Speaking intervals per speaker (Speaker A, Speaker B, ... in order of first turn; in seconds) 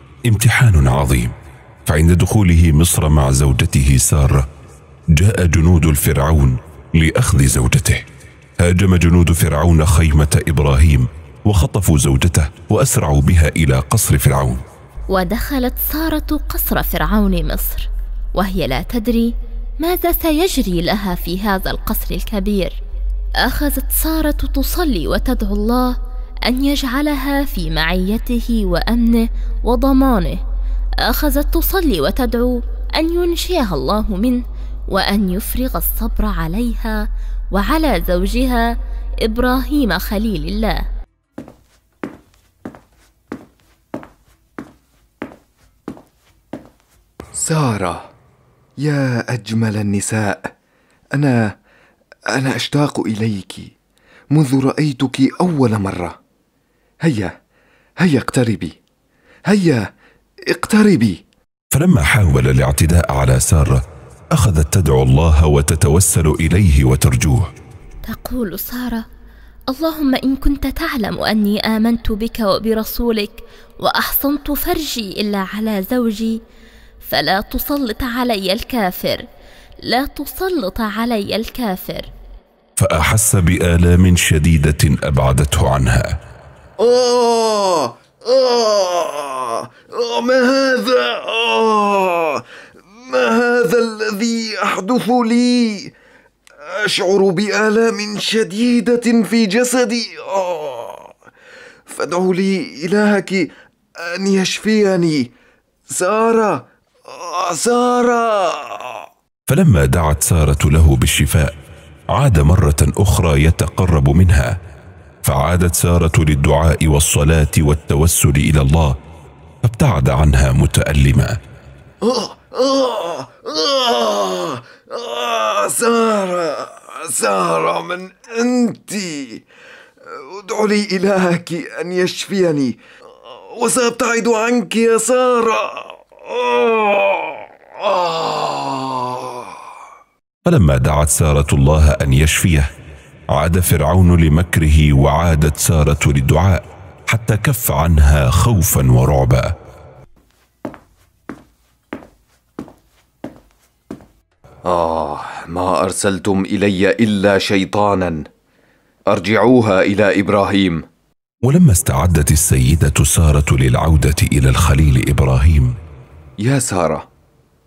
Speaker A: 0.3-1.3, 1.9-4.5, 5.1-8.0, 8.6-14.6, 61.7-67.5, 82.8-86.2, 109.5-111.5, 112.1-114.6, 115.2-119.0, 119.6-121.4, 140.4-142.7, 143.3-149.5, 161.4-165.7
Speaker B: 15.1-22.8, 23.4-30.4, 31.0-38.7, 39.2-40.8, 68.0-69.1, 69.7-76.4, 77.0-79.2, 79.8-82.1
Speaker C: 47.3-48.1, 48.8-50.5, 51.1-51.5, 52.3-53.7, 54.3-56.2, 57.0-57.3, 58.0-58.8, 59.5-59.8, 60.5-61.2, 86.8-92.4, 93.1-95.9, 96.6-101.1, 101.9-105.3, 105.9-109.0, 122.0-129.4, 130.1-139.5, 154.6-158.3, 159.1-160.8, 166.4-167.1